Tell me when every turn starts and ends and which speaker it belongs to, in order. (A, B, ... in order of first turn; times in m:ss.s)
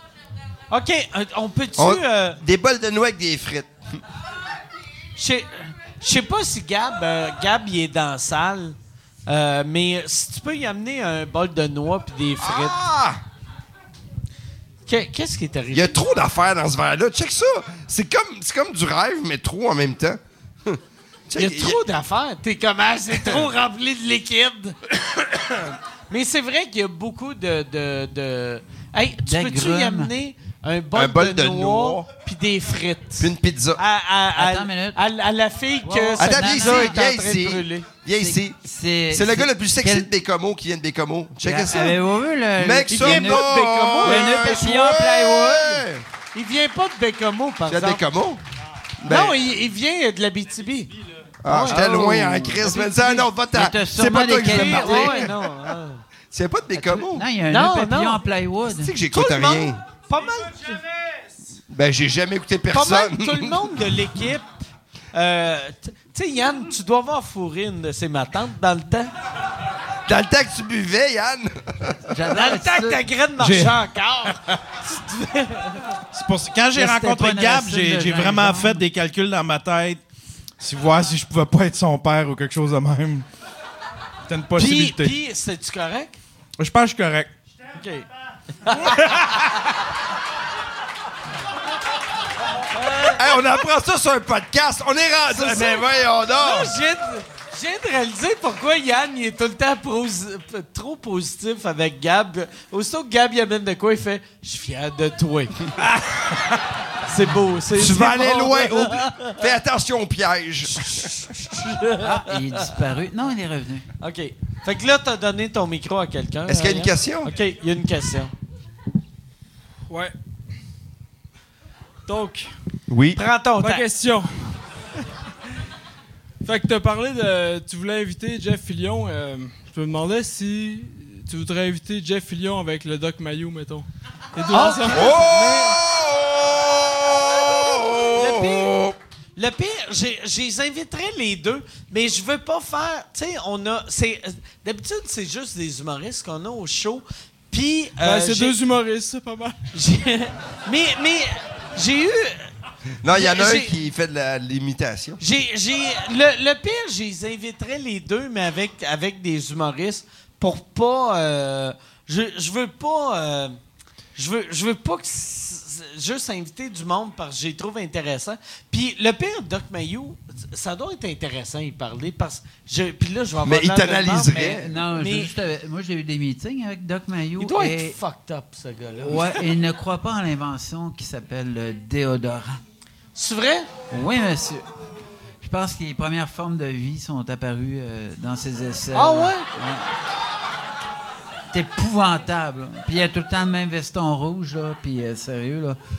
0:00.7-0:02.4 A
0:01.8-0:04.0 B
0:05.2-0:08.8 A
0:09.3-0:12.8 A
0:12.4-0:13.2 B
0:14.9-0:16.0 A
0:15.7-0:21.8 B
0:21.4-0:37.9 A
0:23.2-0:23.5 B
0:29.2-0:30.1 C
0:30.9-0:32.1 B
0:33.2-0:33.8 B
0:34.4-0:35.0 C
0:35.8-0:37.0 C
0:36.2-0:38.6 B
0:38.2-0:40.1 C
0:39.1-0:42.0 B
0:41.4-0:45.8 C
0:42.6-0:46.0 B
0:42.9-0:44.4 A
0:46.3-0:48.0 A
0:47.7-0:48.4 B
0:49.0-0:49.4 B
0:49.1-0:50.9 A
0:51.4-0:55.5 B
0:51.5-0:53.3 A
0:51.7-0:52.7 C
0:53.5-0:55.3 C
0:54.5-0:56.0 A
0:56.3-0:57.2 B
0:56.8-0:58.9 C
0:57.5-0:58.2 A
0:58.7-0:59.8 B
0:59.1-1:00.8 A
1:01.7-1:03.8 B
1:02.7-1:04.6 A
1:05.1-1:09.1 A
1:10.1-1:12.0 B
1:12.1-1:13.0 C
1:12.3-1:16.0 A
1:13.4-1:13.8 D
1:16.1-1:20.0 D
1:16.8-1:18.8 C
1:20.6-1:23.3 D
1:24.3-1:25.2 D
1:24.6-1:26.2 A
1:26.6-1:27.3 D
1:27.8-1:28.1 A
1:28.6-1:29.6 A
1:28.9-1:29.6 D
1:32.7-1:33.4 A
1:33.1-1:36.8 B
1:35.3-1:45.7 A
1:47.0-1:49.4 A
1:47.7-1:51.1 B
1:50.6-1:52.8 A
1:52.0-1:53.9 C
1:54.0-1:58.3 A
1:56.5-1:57.3 B
1:59.9-2:00.2 E
2:02.1-2:02.5 E
2:02.9-2:03.2 B
2:03.2-2:03.9 A
2:03.6-2:04.6 E
2:06.4-2:15.2 E
2:14.5-2:15.8 A
2:14.9-2:19.0 B
2:18.1-2:18.7 A
2:19.4-2:28.6 A
2:28.0-2:29.7 E
2:29.7-2:32.5 A
2:33.0-2:35.2 B
2:33.1-2:33.8 A
2:35.2-2:43.6 A
2:44.2-2:55.3 A
2:53.4-2:54.6 B
2:54.4-2:58.0 C
2:57.4-2:59.4 A
2:59.0-3:02.6 C
3:03.2-3:03.7 A
3:03.9-3:04.6 C
3:05.4-3:09.9 C
3:09.0-3:09.5 A
3:11.5-3:15.8 C